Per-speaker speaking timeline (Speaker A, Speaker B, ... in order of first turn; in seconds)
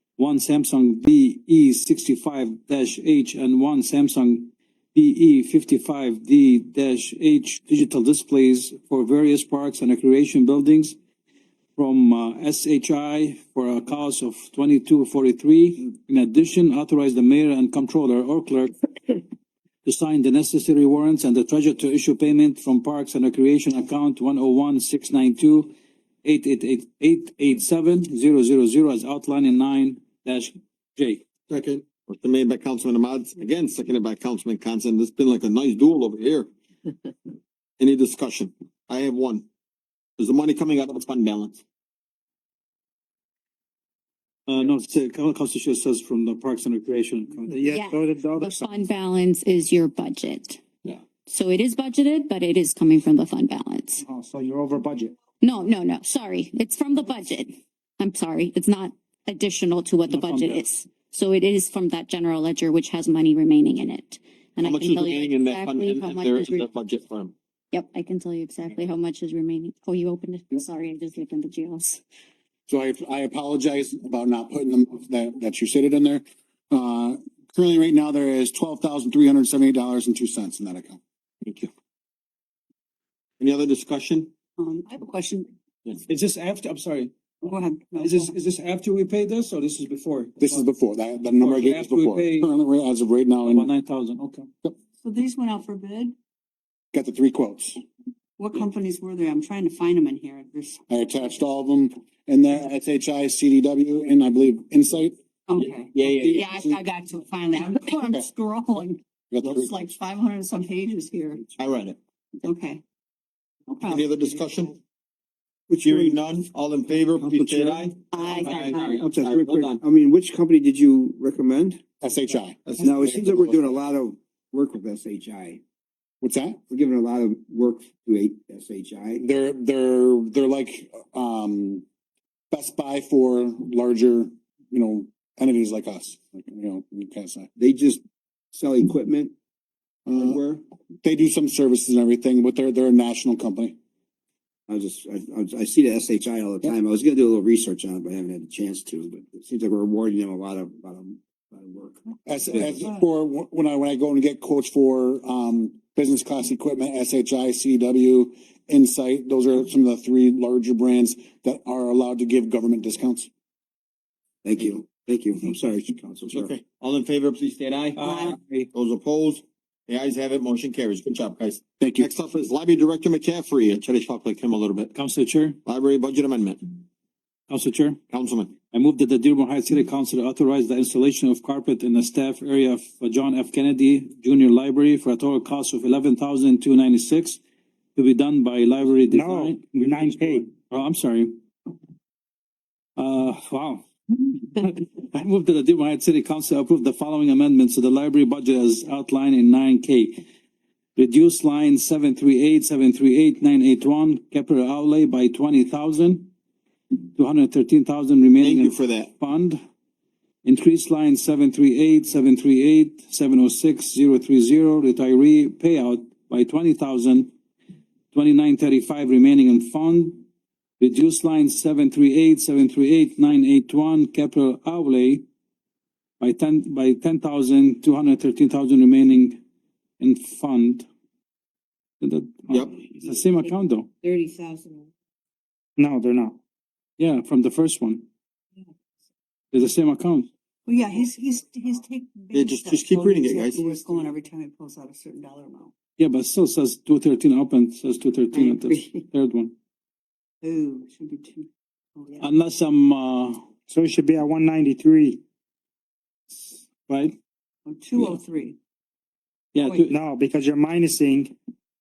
Speaker A: 0.2-11.0, 11.8-18.7, 19.9-25.7, 26.2-31.2, 44.5-47.6, 60.1-60.7, 86.1-87.1, 88.0-90.7, 91.4-92.5, 93.5-94.5, 168.0-168.7, 174.9-175.6, 177.5-178.0, 178.7-187.4, 188.0-191.4, 193.0-193.8, 194.5-200.2, 201.0-206.3, 207.2-209.6, 210.4-217.3, 218.1-220.2, 220.8-225.2, 226.2-229.4, 230.0-230.9, 232.0-233.9, 237.0-238.0, 239.5-240.3, 246.0-249.5, 252.2-253.4, 256.8-257.1, 259.5-259.9
Speaker B: 31.5-37.1, 37.8-39.5, 40.2-41.6, 64.6-67.3, 81.4-81.7, 83.4-84.3, 105.9-106.5, 111.6-112.0, 113.8-114.8, 115.8-119.8, 166.3-174.9, 175.7-176.8, 178.1-178.5, 208.4-209.1, 232.5-232.8, 242.3-243.6
Speaker C: 47.5-48.7, 54.0-55.1, 189.1-190.5, 235.8-236.4, 253.7-255.2, 259.9-261.4
Speaker D: 47.7-50.6, 51.3-54.0, 55.4-66.7, 67.7-72.0, 106.4-106.8, 109.9-110.4
Speaker E: 72.7-81.0, 90.4-93.7, 96.9-97.8, 100.9-105.1, 109.3-109.8, 122.0-123.8, 126.2-126.6, 129.2-131.8, 132.5-137.5, 140.1-140.4, 141.0-143.8, 152.3-163.3, 171.8-172.1
Speaker F: 84.6-85.5, 87.4-88.3, 95.0-96.1, 98.4-100.8, 105.5-109.0, 110.4-111.5, 112.4-112.8, 113.7-114.1, 118.1-119.0, 168.1-168.3, 233.1-234.9, 240.7-245.7, 248.3-249.0, 250.4-252.3, 257.7-258.6, 259.6-259.9
Speaker G: 115.7-116.2, 117.2-117.9, 118.9-121.8, 122.8-125.6, 126.7-129.2, 137.6-138.0, 138.5-139.3, 140.2-140.6, 144.7-152.9, 164.4-166.5